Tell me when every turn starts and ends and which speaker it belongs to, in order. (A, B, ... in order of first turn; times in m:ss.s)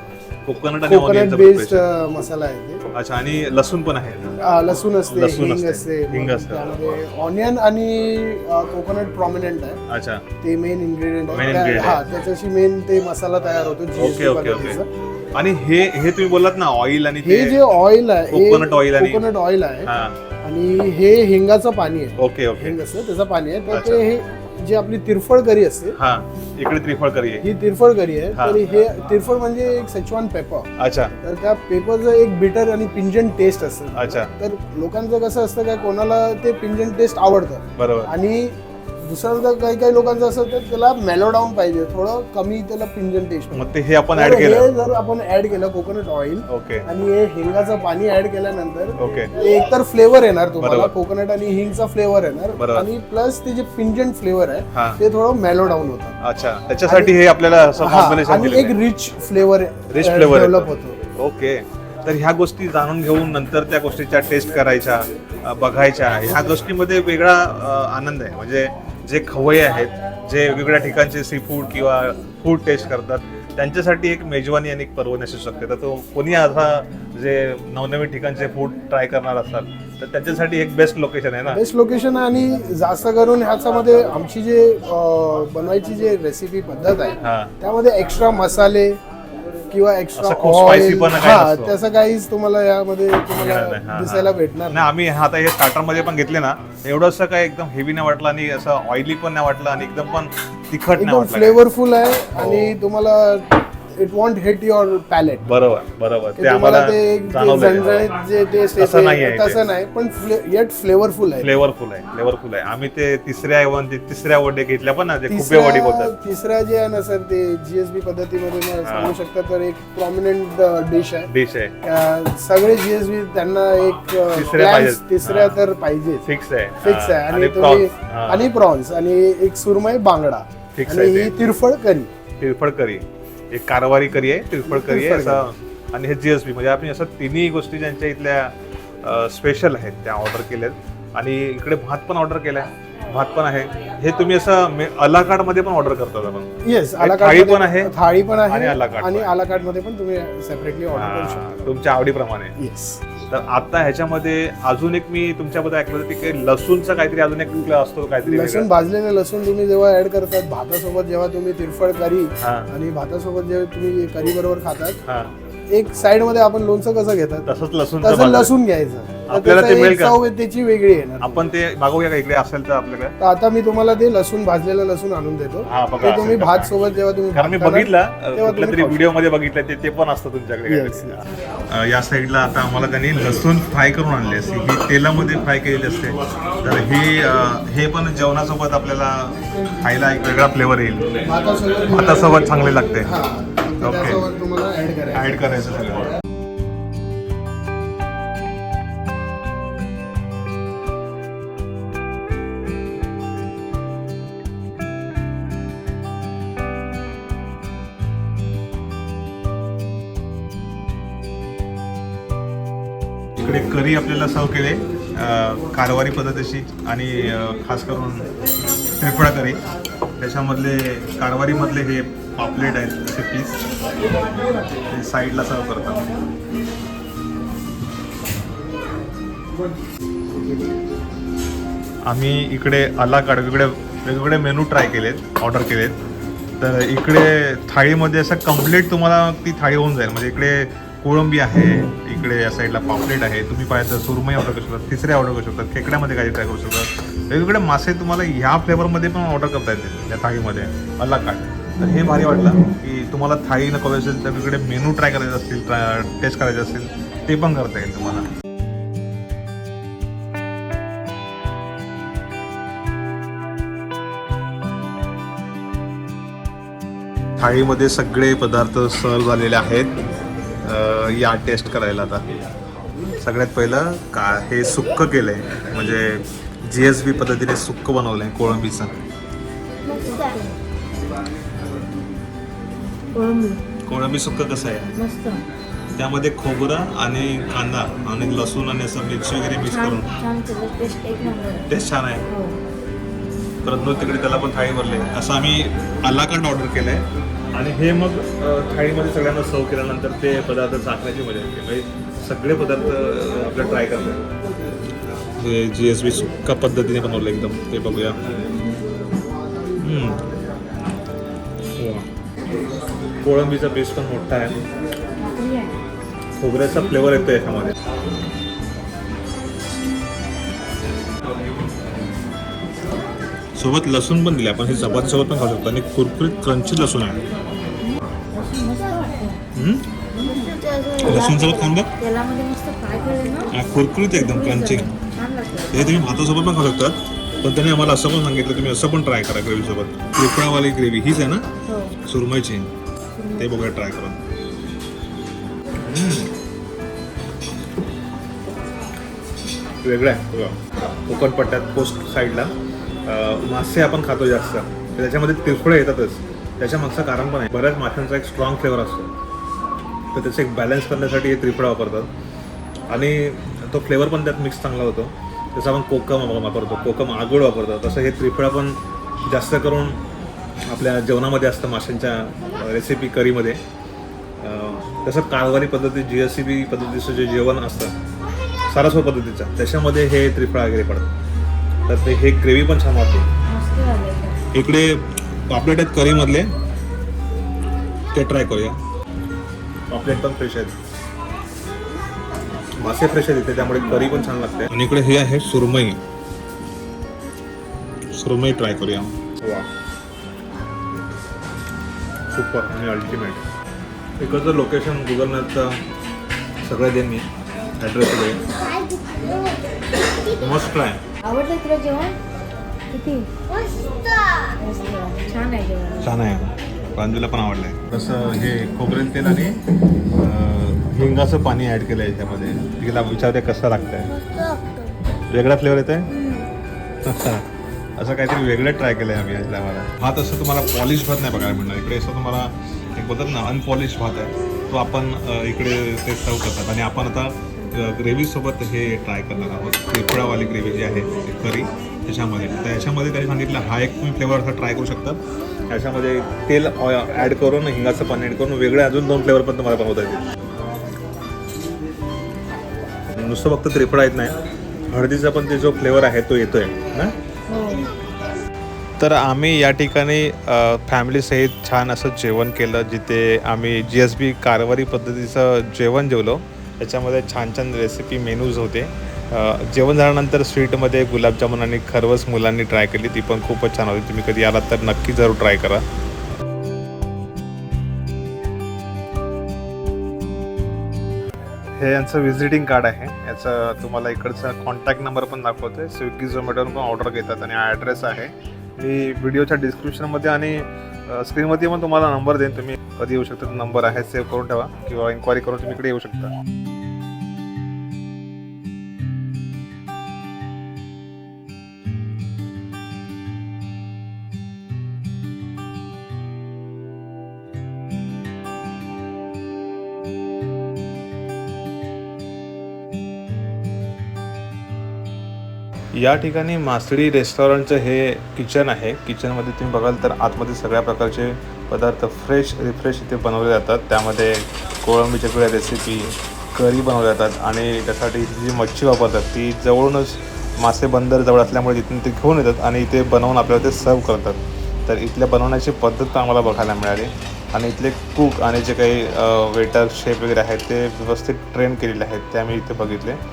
0:00.4-0:01.9 A
0:00.8-0:02.8 B
0:02.9-0:04.3 A
0:04.4-0:09.8 B
0:05.1-0:06.7 A
0:09.9-0:10.2 A
0:10.4-0:14.9 B
0:11.3-0:12.0 A
0:14.0-0:14.8 A
0:15.4-0:17.6 A
0:17.2-0:19.9 B
0:18.3-0:19.2 A
0:19.8-0:20.2 A
0:20.4-0:26.0 B
0:22.2-0:22.8 A
0:23.7-0:24.0 A
0:26.0-0:27.5 A
0:27.4-0:56.2 B
0:28.3-0:28.6 A
0:30.8-0:31.1 A
0:33.9-0:34.3 A
0:37.8-0:38.1 A
0:43.5-0:44.7 A
0:46.5-0:46.9 A
0:49.0-0:49.3 A
0:50.6-0:50.9 A
0:52.6-0:52.9 A
0:54.7-0:55.0 A
0:56.2-0:58.8 A
0:56.8-0:57.2 B
0:57.8-1:01.0 B
0:59.9-1:21.6 A
1:21.5-1:29.0 B
1:27.2-1:27.5 A
1:29.7-1:34.9 B
1:30.2-1:31.8 A
1:33.3-1:41.6 A
1:41.0-1:45.4 B
1:42.4-1:42.8 A
1:45.4-1:48.1 A
1:46.4-1:51.5 B
1:48.8-1:49.6 A
1:51.4-1:56.1 A
1:55.3-2:01.3 B
1:58.8-1:59.2 A
2:01.3-2:01.8 A
2:01.8-2:06.2 B
2:04.3-2:05.6 A
2:06.2-2:08.5 A
2:06.8-2:12.1 B
2:10.8-2:11.3 A
2:12.4-2:27.9 A
2:14.7-2:15.4 B
2:26.6-2:31.7 B
2:28.5-2:29.3 A
2:30.9-2:32.6 A
2:32.6-2:33.0 B
2:33.3-2:38.7 A
2:38.2-2:45.0 B
2:42.4-2:42.7 A
2:45.1-2:45.3 A
2:45.7-2:47.5 B
2:47.4-2:48.5 A
2:48.0-2:51.4 B
2:49.3-2:50.2 A
2:51.2-2:53.2 A
2:53.2-2:59.1 B
2:55.6-2:56.7 A
2:57.3-3:11.2 A
3:00.7-3:01.2 B
3:11.2-3:15.4 B
3:11.9-3:13.1 A
3:13.8-3:14.3 A
3:15.1-3:16.1 A
3:33.4-3:38.3 A
3:39.0-3:39.6 A
3:40.2-3:43.7 A
3:44.9-3:46.1 A
3:52.1-3:56.0 A
3:56.6-4:18.3 A
4:27.4-4:29.9 A
4:30.6-4:32.2 A
4:33.2-4:38.9 A
4:39.9-4:40.5 C
4:43.1-4:43.6 C
4:43.9-4:44.9 A
4:45.0-4:45.4 C
4:46.0-4:50.1 A
4:49.6-4:51.7 C
4:51.7-4:52.3 A
4:52.3-4:52.6 C
4:53.6-5:04.2 A
5:05.4-5:08.2 A
5:09.8-5:10.2 A
5:11.8-5:12.1 A
5:13.2-5:14.6 A
5:15.2-5:15.8 C
5:16.4-5:17.8 A
5:23.6-5:27.2 A
5:27.8-5:29.4 C
5:29.5-5:29.9 A
5:30.1-5:33.5 C
5:31.0-5:31.9 A
5:33.5-5:34.9 A
5:34.1-5:36.0 C
5:35.7-5:41.5 A
5:41.7-5:42.0 C
5:42.0-5:42.7 A
5:43.2-5:43.5 C
5:43.4-5:44.2 A
5:45.8-5:46.3 A
5:49.8-5:52.5 A
5:53.1-5:59.1 A
6:00.1-6:02.1 A
6:02.9-6:10.0 A
6:10.7-6:13.6 A
6:14.4-6:17.9 A
6:18.7-6:21.1 A
6:21.9-6:23.3 A
6:23.5-6:24.4 C
6:24.5-6:26.5 A
6:28.1-6:28.8 A
6:29.9-6:30.7 A
6:32.8-6:36.0 A
6:34.0-6:34.3 C
6:38.1-6:39.7 A
6:42.3-6:43.4 A
6:44.2-6:45.8 A
6:46.6-6:47.3 A
6:47.8-6:48.4 A
6:50.3-6:51.0 A
6:51.2-6:52.2 C
6:52.9-6:53.3 C
6:54.6-6:56.1 C
6:56.0-6:59.6 A
7:00.2-7:04.1 A
7:05.3-7:06.1 A
7:07.0-7:07.4 A
7:08.0-7:30.2 A
7:33.2-7:34.4 A
7:34.9-7:37.1 A
7:37.5-7:37.9 C
7:39.0-7:55.8 A
8:01.8-8:16.3 A
8:35.9-9:03.2 A